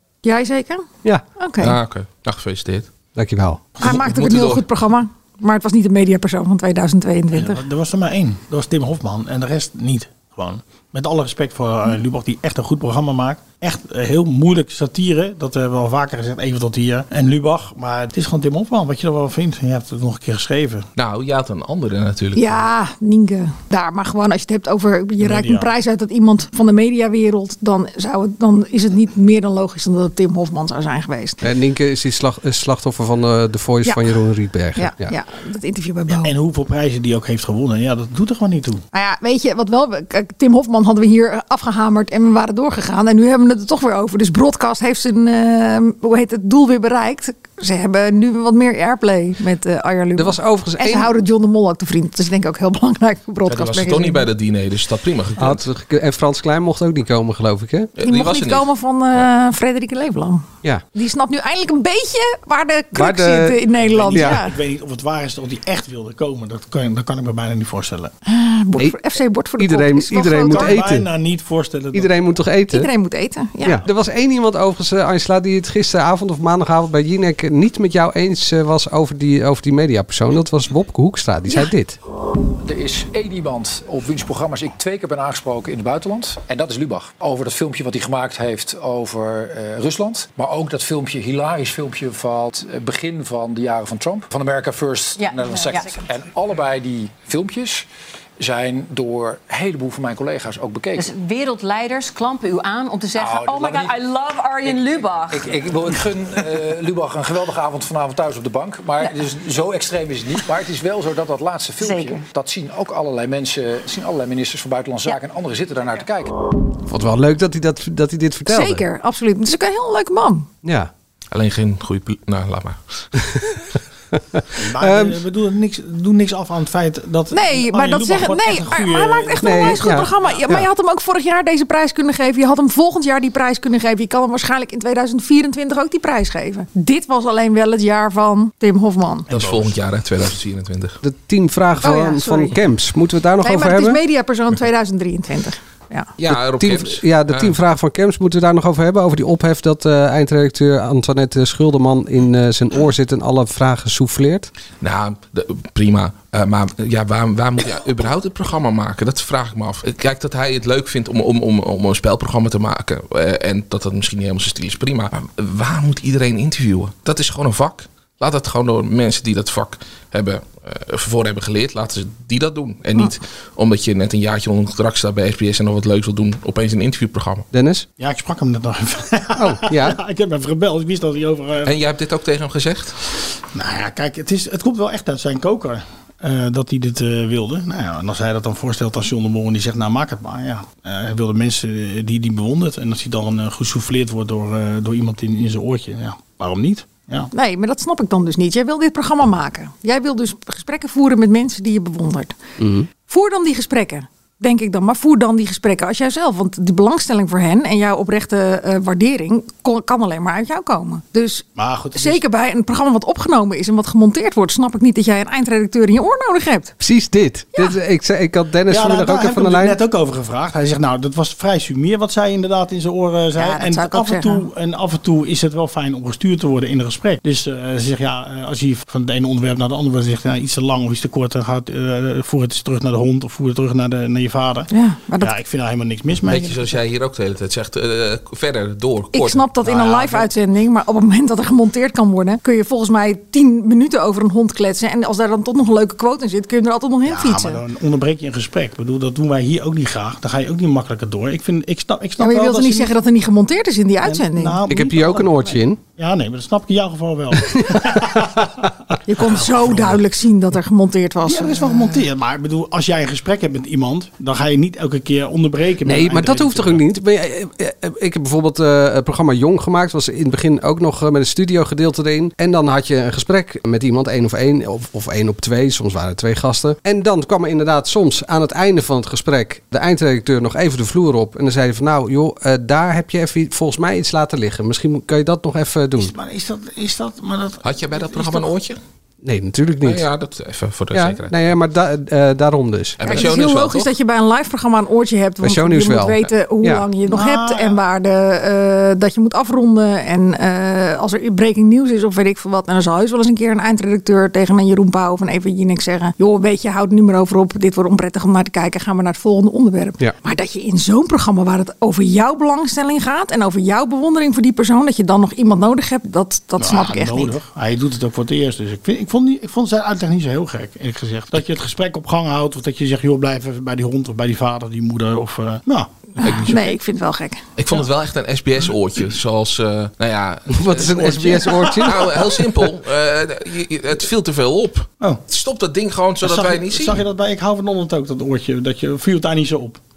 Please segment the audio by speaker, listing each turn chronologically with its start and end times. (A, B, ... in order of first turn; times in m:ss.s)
0:00.2-0:00.9 A
0:01.4-0:01.7 A
0:01.6-0:02.9 B
0:03.2-0:03.6 C
0:03.8-0:07.6 A
0:03.8-0:04.6 B
0:07.3-0:20.9 D
0:21.0-0:22.6 B
0:22.4-0:31.4 A
0:25.2-0:25.7 D
0:31.4-0:35.1 C
0:34.8-0:36.3 A
0:36.1-0:38.8 D
0:38.9-0:54.2 A
0:50.1-0:51.1 C
0:53.5-0:55.7 B
0:55.4-0:57.9 C
0:58.0-0:58.7 B
0:58.0-1:04.5 A
1:02.9-1:04.4 C
1:03.8-1:08.1 D
1:08.2-1:10.8 A
1:09.6-1:11.1 C
1:10.4-1:12.1 D
1:11.9-1:12.9 C
1:12.7-1:13.8 A
1:13.6-1:22.0 C
1:22.6-1:37.8 E
1:35.2-1:35.8 F
1:38.4-1:41.1 E
1:41.0-1:45.4 F
1:43.1-1:56.3 E
1:56.9-1:58.8 C
1:58.5-2:00.5 A
2:00.6-2:00.9 C
2:01.3-2:03.1 B
2:04.3-2:05.2 C
2:04.5-2:10.0 D
2:07.3-2:19.3 A
2:09.4-2:10.7 C
2:19.3-2:21.0 B
2:19.3-2:19.8 D
2:21.0-2:24.0 C
2:21.8-2:22.6 A
2:23.4-2:26.1 A
2:26.2-2:27.5 B
2:26.3-2:34.5 C
2:34.8-2:57.5 B
2:57.5-2:57.8 C
2:58.0-3:01.8 D
2:59.4-3:00.0 C
3:01.6-3:03.0 B
3:03.5-3:17.3 D
3:17.3-3:22.4 A
3:22.6-3:22.9 C
3:23.1-3:36.7 A
3:31.6-3:32.2 D
3:36.8-3:39.8 C
3:38.7-3:54.7 D
3:43.4-3:44.4 A
3:54.7-3:55.3 A
3:55.2-3:56.6 D
3:56.2-3:59.4 B
3:59.1-4:07.6 A
3:59.6-4:00.3 D
4:07.0-4:12.9 D
4:12.2-4:14.6 A
4:14.0-4:20.0 D
4:14.7-4:15.8 C
4:17.4-4:18.0 C
4:19.1-4:22.0 A
4:21.2-4:26.8 D
4:25.8-4:46.1 C
4:46.0-4:48.5 D
4:47.6-4:48.8 B
4:49.2-4:50.0 C
4:49.8-4:51.4 B
4:50.9-4:53.0 C
4:53.0-4:53.9 B
4:53.0-5:17.3 A
4:55.4-4:56.9 C
4:57.1-4:57.8 D
5:16.6-5:26.6 D
5:26.2-5:27.4 A
5:26.2-5:26.5 B
5:27.6-5:37.0 B
5:30.5-5:32.3 C
5:30.8-5:32.1 D
5:36.2-5:39.8 D